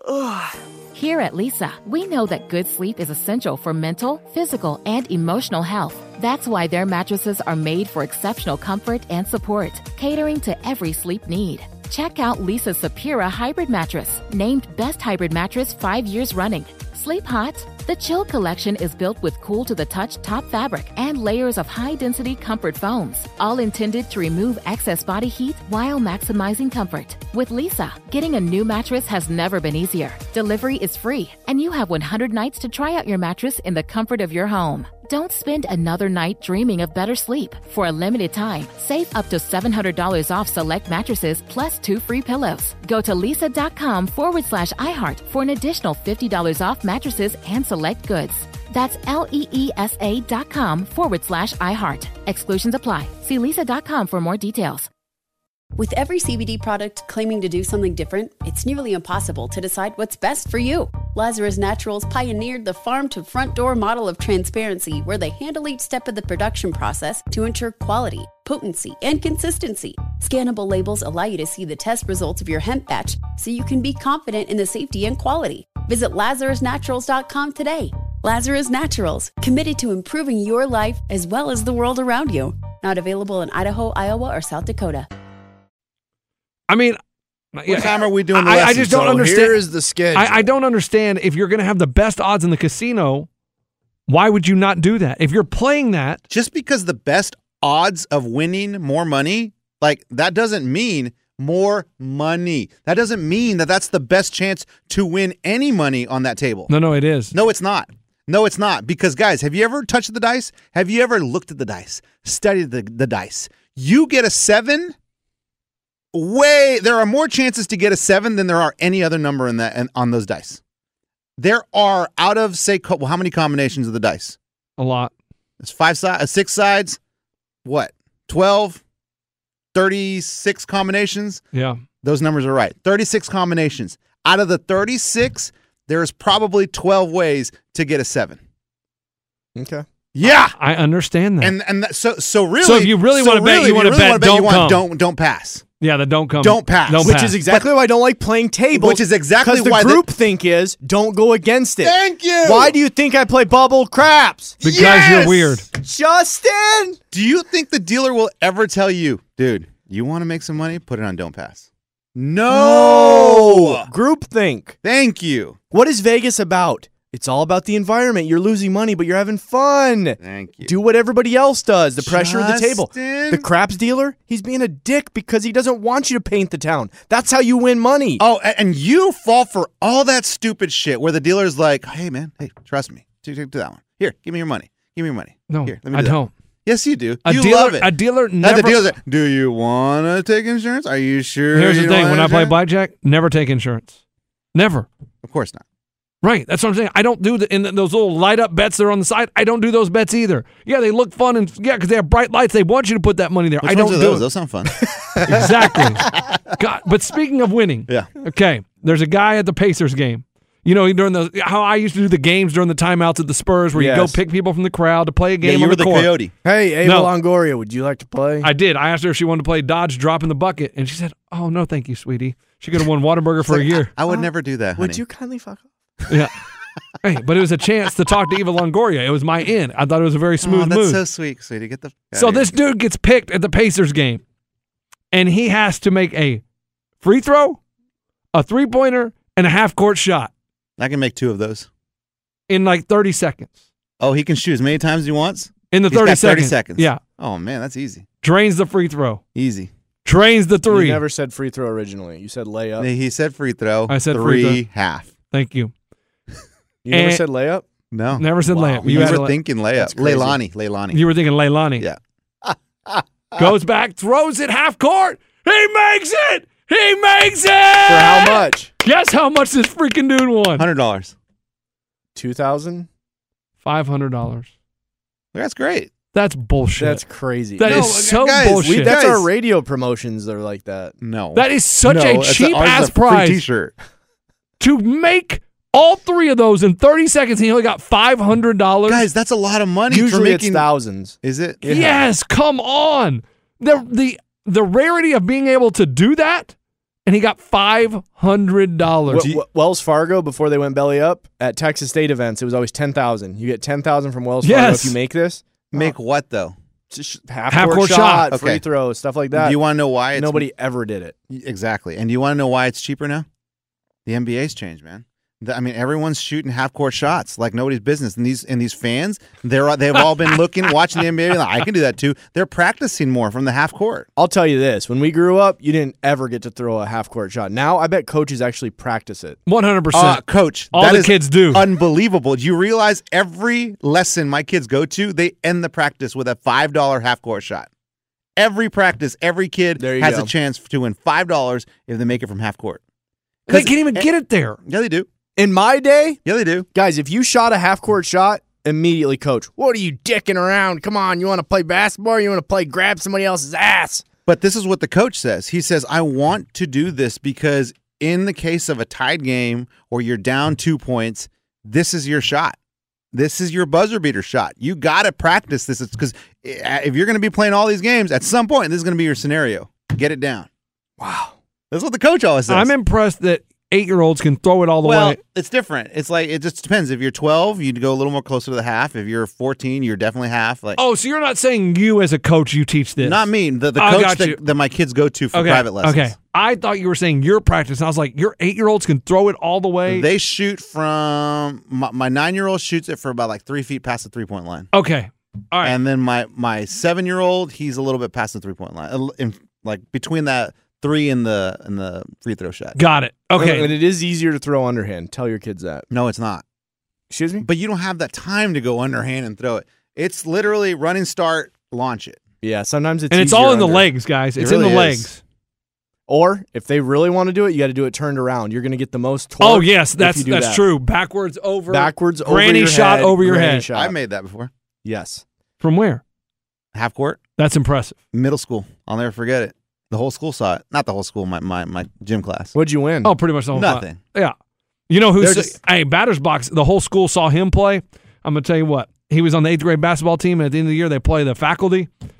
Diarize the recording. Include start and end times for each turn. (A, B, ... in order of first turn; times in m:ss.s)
0:00.9-0:54.9 A
0:55.8-1:25.1 B
1:26.7-1:27.0 C
1:27.5-1:29.6 C
1:27.7-1:29.1 D
1:28.6-1:30.5 E
1:30.1-1:33.3 C
1:34.1-1:36.2 C
1:36.3-1:46.7 D
1:46.7-1:47.3 C
1:47.3-1:54.9 D
1:56.1-2:00.6 D
2:01.4-2:04.4 D
2:04.8-2:05.1 C
2:05.6-2:07.0 D
2:07.6-2:08.8 D
2:09.7-2:11.4 D
2:11.5-2:11.8 C
2:12.0-2:18.4 D
2:19.6-2:19.8 E
2:20.1-2:20.5 D
2:20.4-2:21.5 C
2:21.4-2:25.7 D
2:22.6-2:24.8 C
2:25.8-2:27.4 C
2:26.4-2:27.7 D
2:27.0-2:34.6 E
2:28.7-2:30.0 D
2:31.8-2:32.8 D
2:34.6-2:35.7 C
2:34.6-2:35.6 D
2:35.7-2:37.0 E
2:37.1-2:43.9 D
2:42.5-2:44.8 E
2:44.8-2:45.6 D
2:45.7-2:58.2 E
2:50.2-2:50.7 D
2:52.0-2:53.5 D
2:58.2-3:12.6 D
3:05.5-3:06.3 C
3:07.2-3:08.8 C
3:11.5-3:14.0 C
3:14.5-3:14.9 C
3:15.2-3:15.6 D
3:16.2-3:24.2 C
3:23.6-3:25.5 D
3:24.8-3:25.9 E
3:25.3-3:36.1 C
3:26.1-3:26.5 D
3:33.7-3:34.2 E
3:35.4-3:36.3 D
3:36.4-3:38.5 E
3:36.8-3:37.1 C
3:38.4-3:43.9 C
3:43.4-3:45.0 D
3:44.1-3:46.0 E
3:47.0-3:51.0 C
3:50.4-3:52.5 D
3:52.1-3:54.2 C
3:55.1-3:56.4 C
3:57.0-3:57.6 C
3:58.3-4:00.3 C
4:00.8-4:01.7 D
4:02.5-4:03.5 C
4:04.0-4:08.1 D
4:05.7-4:07.0 C
4:08.2-4:09.2 C
4:09.3-4:09.7 D
4:10.0-4:11.0 C
4:10.7-4:12.9 E
4:12.8-4:15.1 D
4:13.9-4:14.6 C
4:15.3-4:15.7 C
4:16.8-4:17.6 E
4:16.9-4:17.2 C
4:17.9-4:21.0 D
4:18.2-4:19.4 C
4:18.8-4:20.4 E
4:20.9-4:21.9 C
4:21.8-4:23.5 D
4:23.4-4:30.6 C
4:27.9-4:28.7 E
4:30.6-4:31.1 D
4:32.1-4:32.9 E
4:33.6-4:34.5 C
4:35.3-4:35.9 D
4:36.1-4:37.0 C
4:36.8-4:38.0 E
4:37.6-4:39.0 C
4:37.6-4:39.3 D
4:38.6-4:40.9 E
4:41.0-4:43.7 D
4:41.3-4:43.4 C
4:44.6-4:49.0 C
4:48.9-4:50.7 D
4:49.9-4:52.0 E
4:51.2-4:51.7 D
4:51.6-4:56.5 C
4:57.0-4:59.3 C
4:59.1-5:05.9 E
5:04.4-5:05.0 C
5:05.7-5:06.6 D
5:06.9-5:09.6 E
5:07.5-5:08.3 C
5:08.3-5:08.6 D
5:09.3-5:10.5 D
5:10.1-5:11.1 E
5:11.3-5:13.2 D
5:14.0-5:24.1 D
5:24.2-5:29.4 E
5:29.5-5:31.7 C
5:29.9-5:37.7 D
5:38.4-5:42.8 D
5:39.8-5:40.3 E
5:43.5-5:44.6 C
5:43.5-5:44.1 D
5:44.6-5:45.1 D
5:45.4-5:46.2 E
5:46.2-5:46.7 D
5:46.7-5:54.0 E
5:54.3-6:02.6 D
6:03.1-6:10.5 D
6:11.0-6:11.4 E
6:11.7-6:12.7 D
6:12.5-6:15.2 C
6:14.8-6:20.8 D
6:20.8-6:23.2 C
6:23.0-6:26.1 D
6:23.8-6:24.4 C
6:25.3-6:30.0 C
6:29.9-6:34.7 D
6:34.7-6:35.8 C
6:35.6-6:42.8 D
6:42.8-6:43.7 C
6:43.4-6:45.8 E
6:45.9-6:46.4 D
6:47.1-6:47.4 E
6:47.4-6:52.2 D
6:52.4-6:53.9 E
6:53.1-6:55.2 C
6:54.4-6:55.1 D
6:56.1-7:00.6 E
6:59.4-7:03.7 C
7:01.7-7:03.9 E
7:03.7-7:04.5 D
7:04.8-7:05.2 E
7:05.6-7:06.0 C
7:06.7-7:07.2 D
7:07.4-7:08.0 C
7:08.1-7:12.5 D
7:12.5-7:13.1 E
7:13.0-7:14.3 C
7:13.5-7:14.0 D
7:14.9-7:21.9 C
7:15.2-7:15.5 D